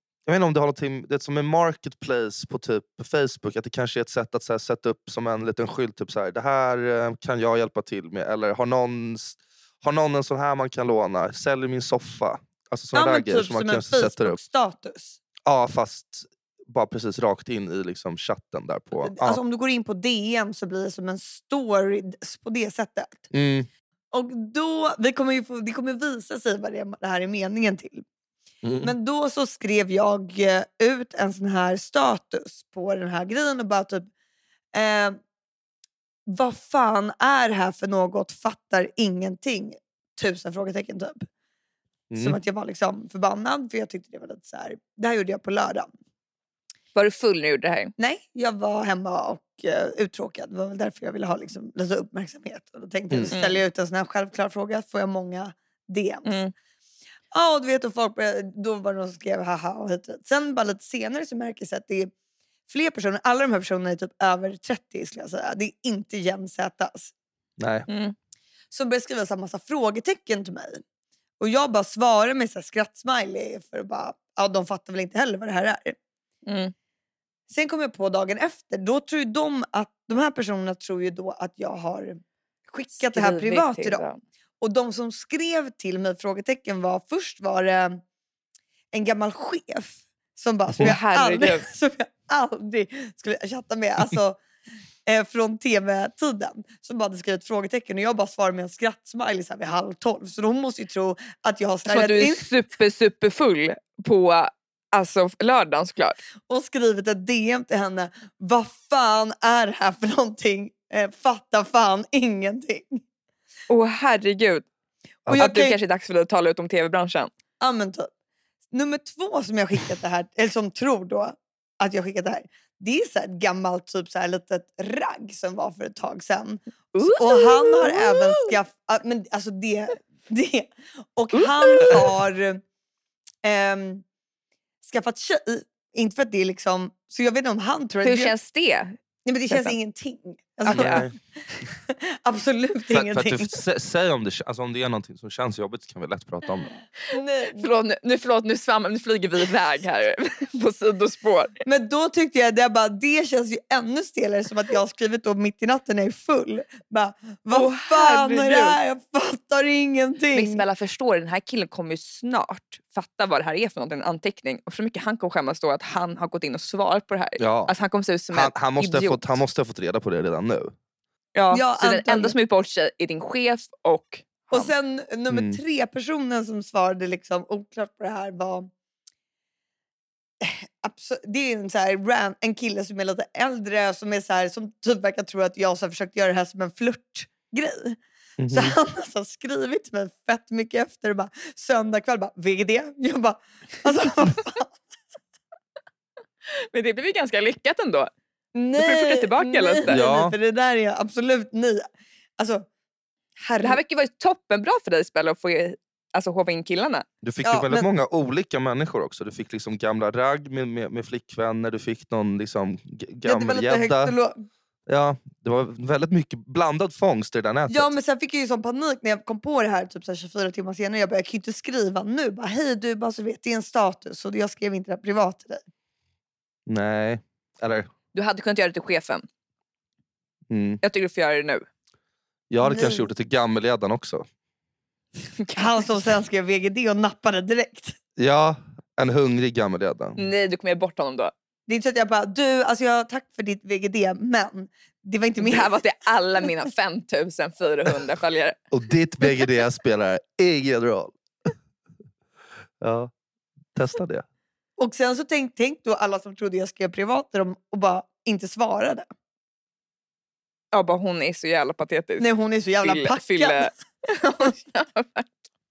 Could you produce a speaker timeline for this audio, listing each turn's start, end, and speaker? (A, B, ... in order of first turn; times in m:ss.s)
0:00.3-0:14.4 A
0:12.9-0:15.2 B
0:15.5-0:19.4 A
0:19.0-0:23.3 B
0:23.3-0:23.7 A
0:24.1-0:28.0 B
0:28.6-0:28.9 A
0:28.8-0:34.1 B
0:34.7-0:35.2 B
0:36.3-0:41.3 B
0:42.1-0:42.4 A
0:42.1-0:45.9 B
0:47.0-0:47.9 C
0:48.0-0:56.4 B
0:53.3-0:53.6 C
0:56.2-0:56.5 C
0:57.3-1:02.1 B
1:02.7-1:07.1 B
1:07.6-1:07.9 A
1:07.9-1:08.2 C
1:08.7-1:10.8 B
1:11.4-1:16.0 B
1:16.5-1:16.7 C
1:17.5-1:24.0 B
1:22.9-1:24.2 C
1:24.6-1:28.0 B
1:28.9-1:34.4 B
1:30.8-1:31.7 C
1:35.1-1:42.5 B
1:41.9-1:46.2 C
1:46.5-1:53.0 B
1:53.7-1:54.7 C
1:55.2-1:55.5 A
1:55.2-1:55.8 B
1:55.4-1:57.3 C
1:57.6-1:58.1 B
1:58.7-2:12.6 B
2:07.0-2:08.6 C
2:11.3-2:12.0 C
2:13.4-2:14.0 B
2:14.8-2:18.3 B
2:18.0-2:19.0 C
2:19.2-2:21.1 B
2:19.5-2:19.8 C
2:20.7-2:21.1 C
2:20.7-2:21.1 A
2:21.9-2:23.5 B
2:22.9-2:26.7 A
2:27.1-2:27.6 B
2:27.6-2:31.5 C
2:31.6-2:40.6 B
2:37.5-2:38.8 C
2:40.3-2:49.3 C
2:47.4-2:47.7 A
2:48.3-2:50.7 A
2:51.4-2:54.7 C
2:51.5-2:52.4 B
2:54.5-2:58.7 B
2:55.3-2:55.6 A
3:00.4-3:08.0 B
3:08.4-3:08.8 A
3:08.5-3:14.7 B
3:16.5-3:18.1 C
3:18.5-3:21.9 B
3:18.8-3:20.0 C
3:19.9-3:20.4 A
3:22.4-3:22.6 B
3:23.4-3:23.8 B
3:23.6-3:27.1 C
3:27.2-3:34.1 A
3:27.4-3:27.9 B
3:33.2-3:34.4 B
3:34.9-3:38.0 A
3:37.7-3:45.6 B
3:46.7-3:47.9 A
3:48.1-3:49.2 C
3:50.5-3:50.8 A
3:50.8-3:51.7 C
3:52.5-3:54.3 A
3:52.6-3:53.1 B
3:55.5-3:58.0 B
3:58.2-4:00.2 A
4:00.2-4:01.3 C
4:01.7-4:05.8 B
4:05.4-4:08.6 C
4:08.7-4:11.2 A
4:12.8-4:13.1 A
4:13.8-4:14.2 A
4:14.8-4:19.1 B
4:20.7-4:22.3 C
4:22.2-4:23.7 B
4:22.8-4:25.4 C